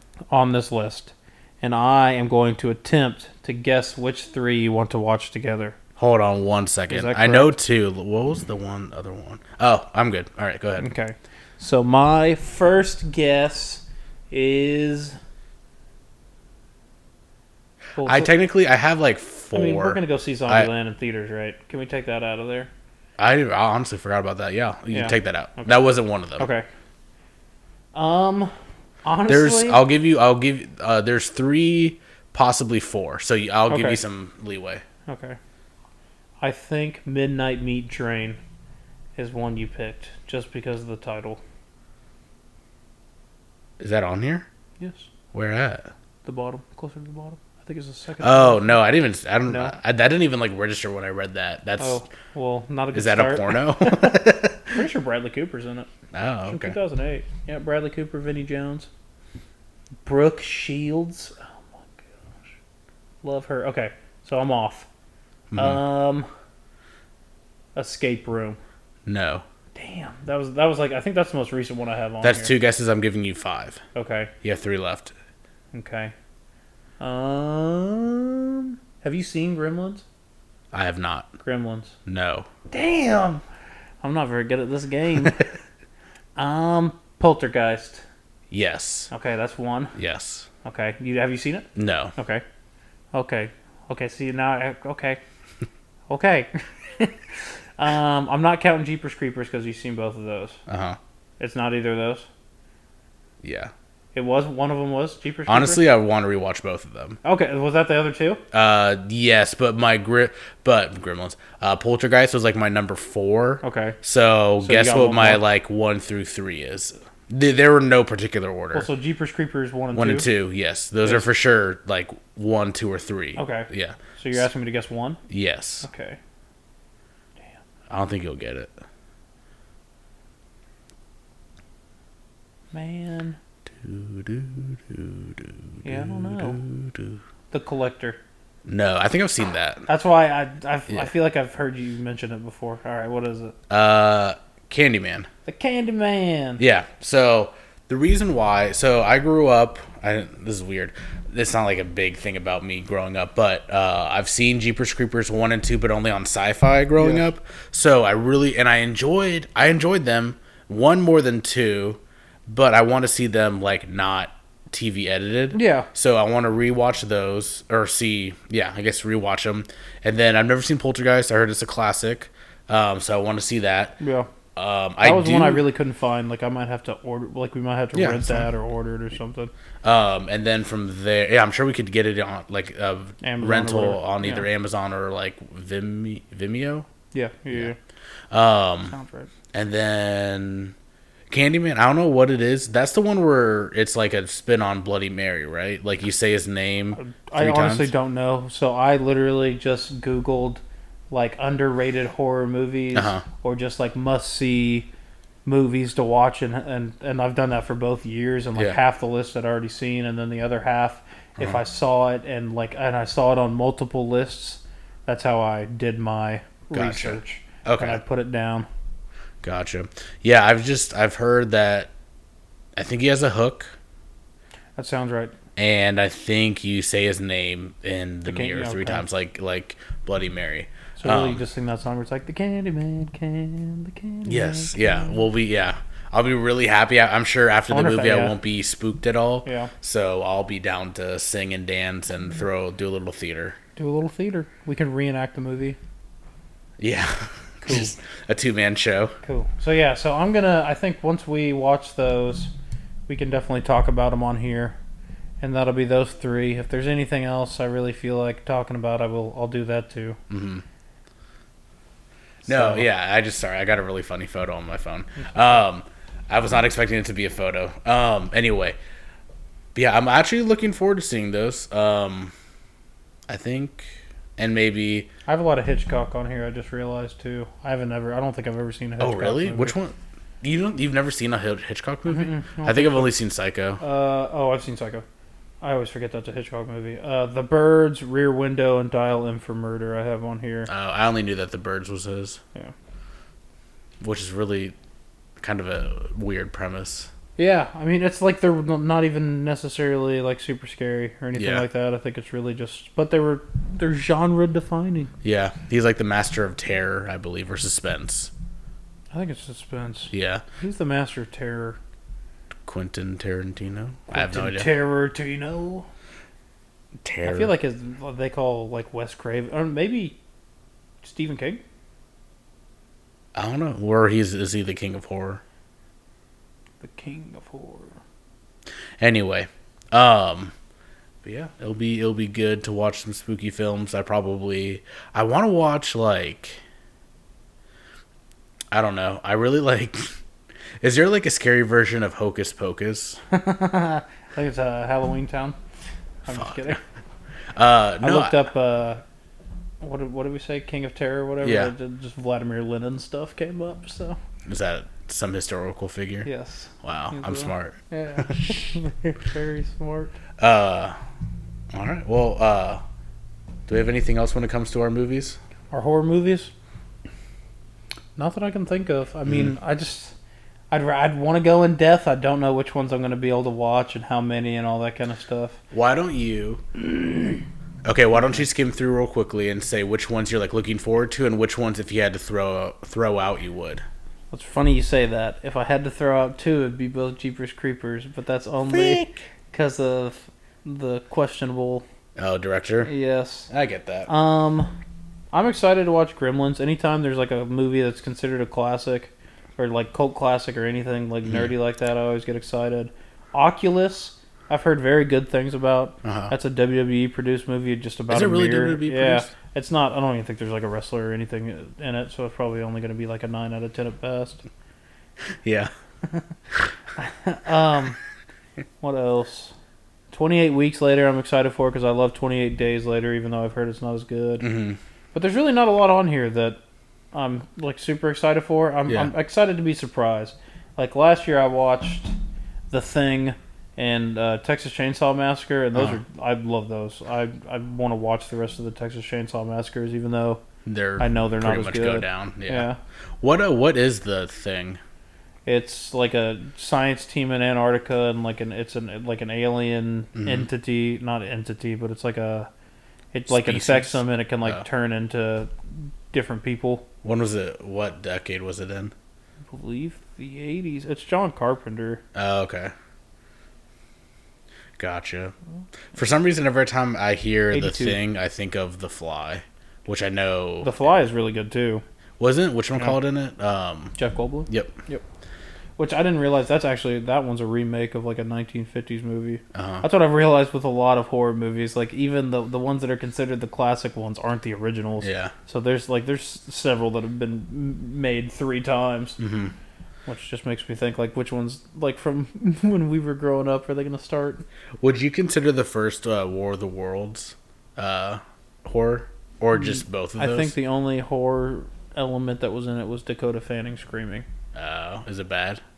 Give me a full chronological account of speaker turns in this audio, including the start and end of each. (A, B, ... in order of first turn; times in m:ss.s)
0:00.3-0:05.8 A
0:06.0-0:10.9 B
0:06.9-0:07.5 A
0:10.8-0:15.2 A
0:18.0-0:18.3 A
0:18.0-0:20.7 B
0:19.5-0:22.7 A
0:23.2-0:26.5 B
0:24.9-0:25.7 A
0:26.4-0:26.7 A
0:27.9-0:28.5 A
0:29.0-0:29.8 A
0:29.3-0:34.8 B
0:33.7-0:34.0 A
0:35.1-0:35.4 A
0:36.4-0:38.4 A
0:39.2-0:41.4 A
0:43.8-0:44.4 B
0:44.8-0:45.1 A
0:45.3-0:45.9 B
0:46.2-0:48.8 A
0:48.2-0:52.0 B
0:49.5-0:49.8 A
0:51.8-0:55.9 A
0:52.9-0:54.8 B
0:56.1-0:56.8 B
0:56.5-0:58.9 A
1:00.0-1:02.4 A
1:03.2-1:04.9 A
1:05.5-1:05.8 B
1:05.6-1:06.3 A
1:07.8-1:08.6 A
1:09.1-1:09.4 B
1:09.8-1:12.5 A
1:12.2-1:13.8 B
1:13.9-1:14.3 A
1:14.4-1:15.1 B
1:15.7-1:16.1 A
1:17.0-1:20.0 A
1:20.7-1:21.4 B
1:21.4-1:22.0 A
1:22.1-1:22.5 B
1:22.7-1:23.4 A
1:24.0-1:25.5 A
1:26.4-1:28.0 A
1:28.5-1:29.1 B
1:29.1-1:30.0 A
1:30.0-1:30.5 B
1:30.6-1:32.4 A
1:31.8-1:32.1 B
1:33.1-1:35.2 A
1:36.1-1:37.1 A
1:37.8-1:40.6 A
1:40.7-1:41.0 B
1:41.4-1:42.3 A
1:43.4-1:43.7 B
1:44.1-1:45.8 A
1:45.5-1:47.2 B
1:47.2-1:48.4 A
1:48.5-1:58.9 B
1:53.6-1:54.0 A
1:54.6-1:55.4 A
1:58.7-2:00.2 A
1:59.9-2:04.4 B
2:03.4-2:05.2 A
2:05.3-2:05.9 B
2:05.8-2:06.2 A
2:07.9-2:08.7 B
2:12.7-2:13.4 A
2:13.7-2:17.2 B
2:15.8-2:16.6 A
2:17.5-2:18.2 A
2:18.6-2:19.9 B
2:19.9-2:23.6 A
2:23.7-2:25.3 B
2:25.4-2:26.6 A
2:26.6-2:54.0 B
2:37.0-2:37.2 A
2:45.5-2:45.9 A
2:54.0-2:54.3 A
2:54.6-2:55.6 B
2:55.0-2:59.5 A
2:57.9-2:58.5 B
2:59.8-3:06.9 B
3:03.2-3:04.4 A
3:07.1-3:07.8 A
3:08.3-3:08.9 B
3:08.9-3:09.3 A
3:09.5-3:10.7 B
3:11.3-3:17.9 B
3:17.0-3:24.9 A
3:22.9-3:23.2 B
3:25.4-3:38.7 A
3:36.7-3:38.0 B
3:39.4-3:41.9 B
3:42.8-3:43.8 B
3:44.8-3:45.3 A
3:45.6-3:51.4 B
3:48.2-3:49.0 A
3:51.0-3:54.8 A
3:54.2-4:03.6 B
3:57.7-3:58.4 A
3:59.4-3:59.7 A
4:03.8-4:05.8 A
4:06.8-4:09.1 B
4:07.6-4:07.9 A
4:09.2-4:12.5 A
4:13.1-4:14.8 A
4:15.4-4:20.2 A
4:20.3-4:20.6 B
4:22.4-4:22.8 A
4:22.4-4:28.8 B
4:29.8-4:32.3 B
4:33.3-4:35.1 B
4:35.3-4:39.7 A
4:39.0-4:43.8 B
4:42.1-4:43.1 A
4:43.8-4:45.0 A
4:45.6-4:50.7 A
4:50.7-4:52.4 B
4:54.0-4:54.8 B
4:55.4-4:57.1 B
4:57.4-5:05.1 A
5:01.4-5:01.6 B
5:05.2-5:08.3 B
5:09.1-5:11.8 A
5:10.1-5:10.4 B
5:12.7-5:14.7 B
5:14.1-5:15.9 A
5:17.0-5:17.5 B
5:17.2-5:20.2 A
5:21.0-5:21.6 A
5:23.4-5:25.4 B
5:26.8-5:28.0 A
5:29.0-5:30.5 B
5:31.2-5:36.6 B
5:38.7-5:40.2 B
5:40.8-5:43.2 B
5:43.3-5:45.6 A
5:46.2-5:46.8 A
5:46.3-5:46.8 B
5:47.5-5:48.4 B
5:48.0-5:49.0 A
5:49.8-5:54.2 A
5:51.4-5:51.7 B
5:54.5-5:56.3 B
5:56.2-6:00.1 A
5:56.8-5:58.6 B
6:00.4-6:01.0 B
6:01.7-6:02.8 B
6:03.7-6:05.4 B
6:05.7-6:06.5 A
6:08.2-6:10.1 A
6:09.3-6:09.5 B
6:10.7-6:15.6 A
6:15.7-6:23.8 B
6:24.3-6:31.8 A
6:28.7-6:29.1 B
6:32.2-6:32.9 B
6:32.8-6:33.5 A
6:33.5-6:34.1 B
6:34.1-6:34.7 A
6:35.3-6:54.4 A
6:46.0-6:46.3 B
6:48.1-6:49.3 B
6:55.4-6:55.7 B
6:57.0-6:58.0 A
6:58.8-6:59.5 A
7:00.1-7:04.5 A
7:04.4-7:04.8 B
7:05.1-7:06.6 A
7:07.1-7:12.1 A
7:08.9-7:09.1 B
7:12.7-7:20.4 A
7:20.6-7:22.7 B
7:21.0-7:22.8 A
7:23.2-7:24.8 B
7:25.5-7:32.5 A
7:30.2-7:30.5 B
7:33.1-7:35.5 A
7:33.3-7:34.6 B
7:36.1-7:36.9 A
7:37.0-7:38.9 B
7:39.5-7:42.0 A
7:42.1-7:42.7 B
7:44.8-7:45.3 B
7:45.9-7:50.7 B
7:47.5-7:48.0 A
7:50.6-7:51.8 A
7:52.2-7:54.0 B
7:54.0-7:55.0 A
7:54.5-7:54.8 B
7:55.8-8:09.2 A
7:59.5-7:59.8 B
8:05.0-8:05.3 B
8:09.2-8:09.5 B
8:10.1-8:14.4 A
8:14.8-8:20.5 B
8:20.2-8:24.2 A
8:24.5-8:25.6 B